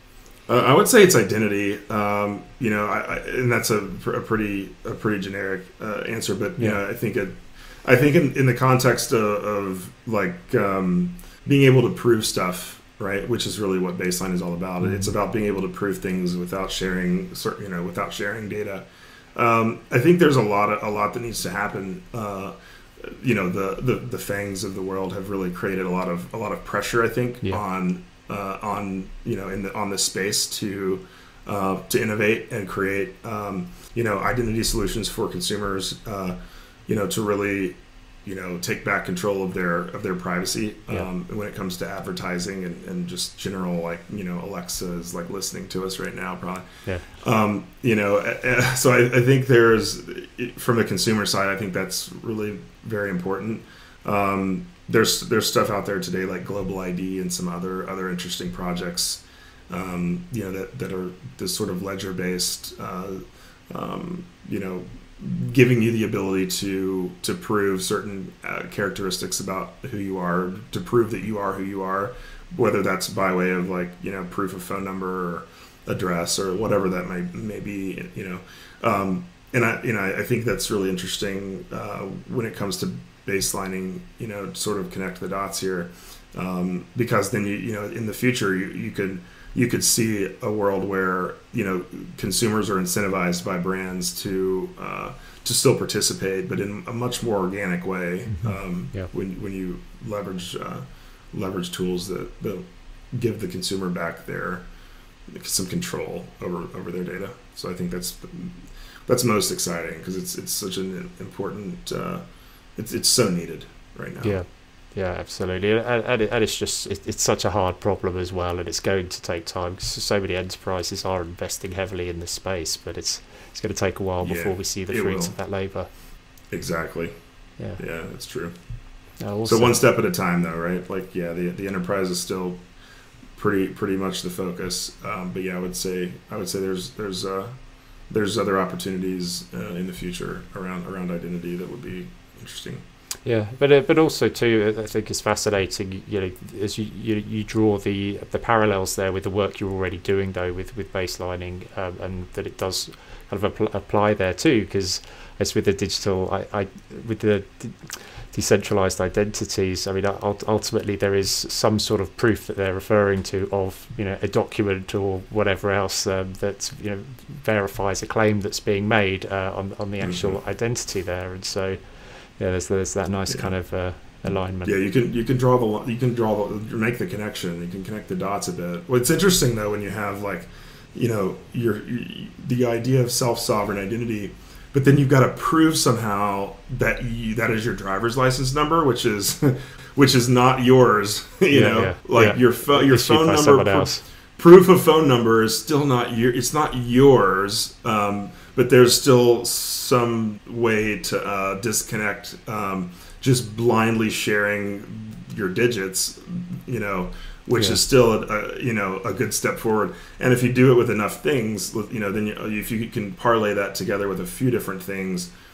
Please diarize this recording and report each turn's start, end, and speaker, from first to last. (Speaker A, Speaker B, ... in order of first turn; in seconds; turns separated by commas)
Speaker A: 0.5-104.7, Speaker B: 14.8-15.1, Speaker B: 98.3-99.1, Speaker A: 105.3-114.4, Speaker B: 114.2-125.9, Speaker A: 124.2-125.4, Speaker A: 126.5-127.1, Speaker A: 127.8-128.5, Speaker B: 129.2-129.8, Speaker A: 129.4-132.6, Speaker A: 133.4-142.8, Speaker B: 143.2-174.7, Speaker A: 170.0-170.4, Speaker A: 174.7-215.3, Speaker B: 191.5-194.0